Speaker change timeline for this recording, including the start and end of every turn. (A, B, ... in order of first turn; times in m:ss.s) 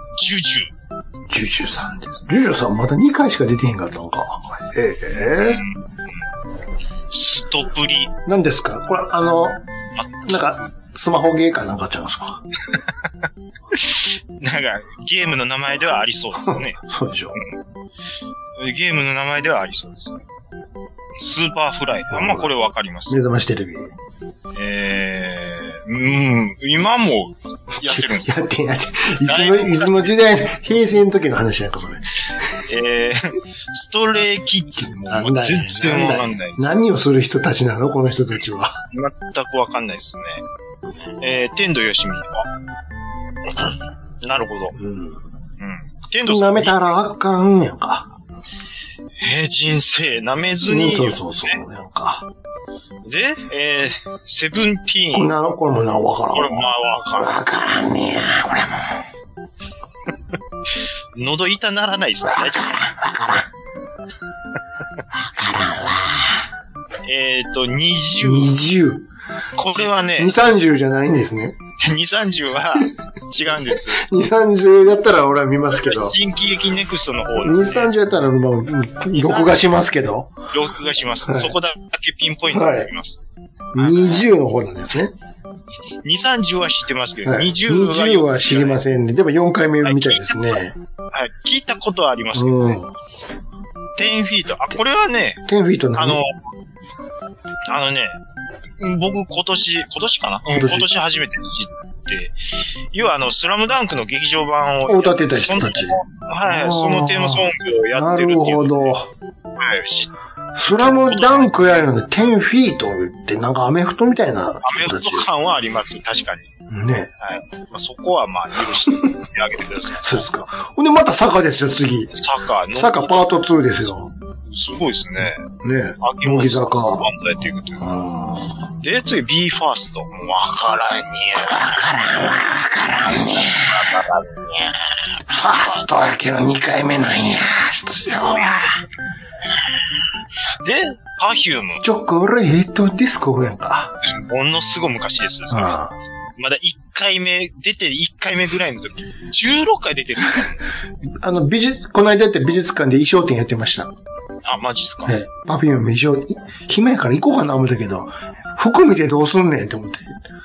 0:00.2-0:00.7 A
0:01.3-0:05.6 B
0:05.4-0:05.8 A
0:07.1-0:08.2 A
0:08.3-0:09.6 B
0:10.0-0:10.6 A
0:10.2-0:12.4 B
0:13.7-0:16.8 A
0:16.4-0:17.4 B
0:18.6-0:20.2 A
0:21.2-0:23.2 A
0:22.1-0:22.5 B
0:23.1-0:23.9 B
0:24.6-0:28.3 A
0:27.8-0:32.1 B
0:29.2-0:30.1 A
0:32.6-0:36.7 A
0:34.8-0:38.8 B
0:38.9-0:40.4 A
0:41.2-0:42.5 A
0:43.6-0:44.8 A
0:44.8-0:45.2 B
0:45.6-0:46.8 A
0:46.2-0:48.1 B
0:49.2-0:51.6 A
0:50.6-0:52.3 B
0:53.1-0:55.3 A
0:55.1-0:59.0 B
0:56.3-0:57.4 A
1:01.2-1:03.0 A
1:02.4-1:03.5 B
1:05.2-1:06.5 B
1:07.0-1:08.5 A
1:08.2-1:09.1 B
1:09.6-1:10.3 A
1:10.2-1:11.6 B
1:11.8-1:14.1 A
1:13.9-1:16.2 B
1:15.8-1:17.9 A
1:17.4-1:20.3 B
1:19.1-1:19.6 A
1:20.5-1:23.2 A
1:21.2-1:21.6 B
1:22.5-1:22.9 B
1:23.7-1:25.1 B
1:23.8-1:24.2 A
1:26.0-1:28.8 A
1:27.2-1:30.8 B
1:29.8-1:30.6 A
1:31.1-1:32.8 A
1:32.3-1:32.9 B
1:34.0-1:35.4 A
1:35.4-1:36.2 B
1:36.0-1:36.3 A
1:37.7-1:38.2 A
1:38.8-1:42.4 A
1:40.5-1:40.9 B
1:42.9-1:49.0 A
1:44.8-1:49.1 B
1:49.6-1:50.1 A
1:50.6-1:55.3 B
1:50.7-1:51.5 A
1:54.6-1:56.5 A
1:56.7-1:57.1 B
1:57.2-2:00.2 A
2:00.0-2:02.1 B
2:02.1-2:03.5 A
2:02.7-2:04.1 B
2:04.5-2:05.5 A
2:05.6-2:07.1 B
2:06.0-2:07.9 A
2:07.8-2:08.7 B
2:08.8-2:11.9 A
2:11.4-2:14.0 B
2:13.0-2:15.0 A
2:15.3-2:18.8 B
2:20.6-2:21.8 A
2:21.8-2:24.0 B
2:24.0-2:25.8 A
2:25.5-2:26.0 B
2:26.4-2:30.6 A
2:31.2-2:33.9 B
2:34.4-2:35.2 A
2:35.1-2:40.2 B